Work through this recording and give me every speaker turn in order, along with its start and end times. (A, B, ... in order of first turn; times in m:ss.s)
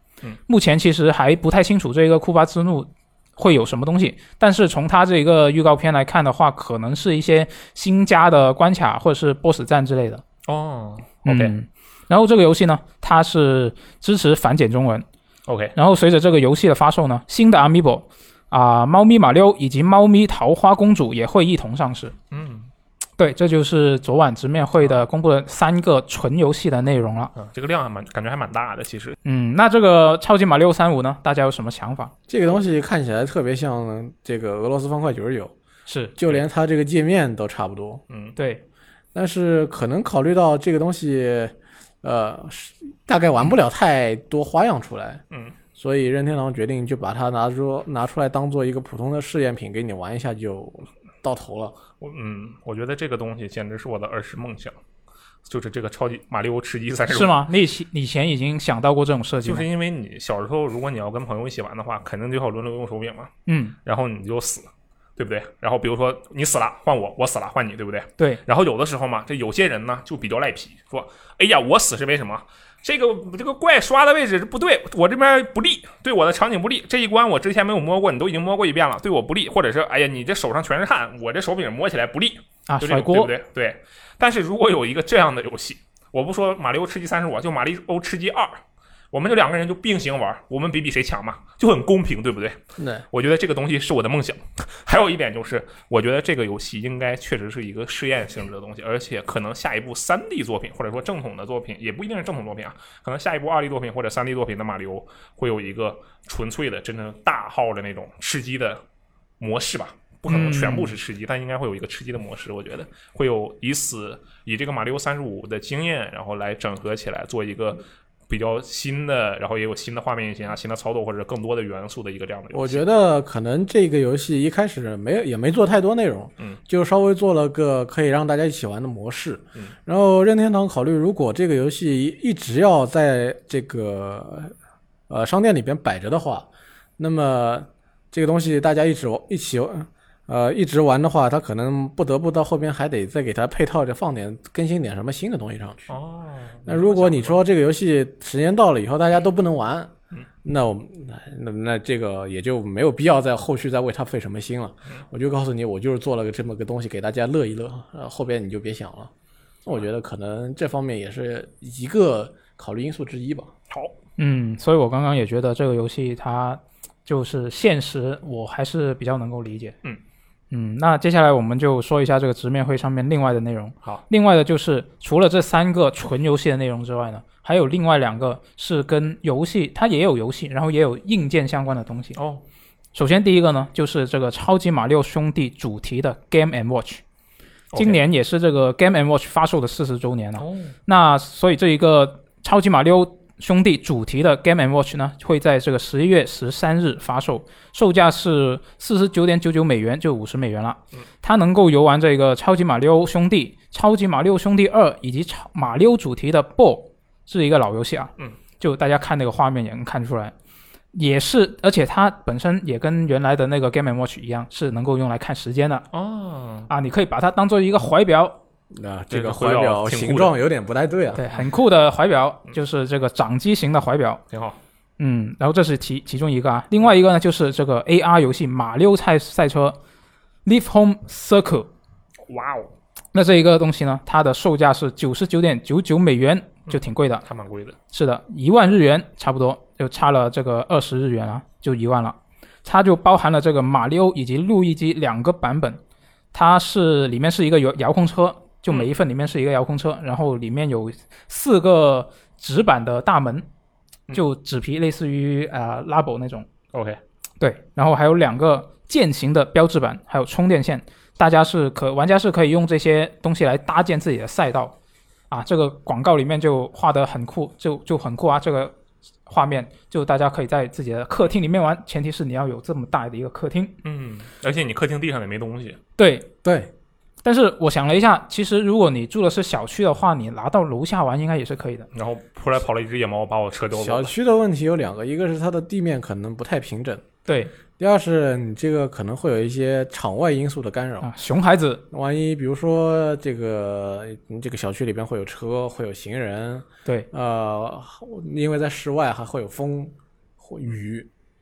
0:00.5-0:10.2 A
0:10.5-0:11.5 B
0:11.2-0:15.1 A
0:15.5-0:15.8 B
0:15.8-0:22.2 A
0:22.3-0:22.7 B
0:23.2-0:27.3 A
0:27.4-0:29.2 B
0:29.2-0:32.1 A
0:32.3-0:35.5 C
0:35.9-0:36.1 A
0:36.2-0:38.0 C
0:38.1-0:38.4 B
0:38.4-0:38.6 A
0:39.1-0:45.2 C
0:45.8-0:51.8 C
0:52.0-0:54.8 B
0:55.5-0:57.4 B
0:57.1-0:59.7 A
0:59.4-1:03.3 B
1:03.5-1:03.8 A
1:03.8-1:48.8 B
1:22.7-1:23.3 A
1:32.8-1:33.0 C
1:49.4-2:02.8 B
1:50.3-1:51.0 A
2:02.5-2:14.5 C
2:15.1-2:25.9 C
2:25.9-2:27.4 B
2:26.7-2:29.9 C
2:30.4-2:39.1 C
2:39.6-2:43.5 C
2:43.7-2:44.0 B
2:44.2-2:49.8 A
2:50.5-3:02.2 A
3:02.2-3:02.4 B
3:02.9-3:07.0 A
3:07.7-3:08.0 B
3:07.8-3:30.3 A
3:10.4-3:10.7 B
3:30.9-3:35.9 A
3:35.9-3:36.7 B
3:36.7-3:38.4 A
3:38.7-3:41.2 C
3:39.1-3:40.3 B
3:41.1-3:44.2 A
3:44.3-3:44.6 B
3:45.0-3:49.8 A
3:50.4-3:51.7 A
3:52.3-3:52.7 B
3:53.1-3:57.2 A
3:56.7-3:57.8 B
3:57.9-4:05.8 A
4:06.3-4:13.5 A
4:14.1-4:16.5 A
4:16.7-4:17.0 B
4:17.4-4:24.7 A
4:25.3-4:33.8 A
4:33.8-4:35.8 B
4:36.0-4:36.3 A
4:36.4-4:36.7 C
4:37.2-4:41.9 A
4:41.9-4:44.1 B
4:43.8-4:47.0 C
4:47.3-4:47.5 A
4:47.8-4:51.1 C
4:51.0-4:51.8 A
4:51.9-5:01.1 C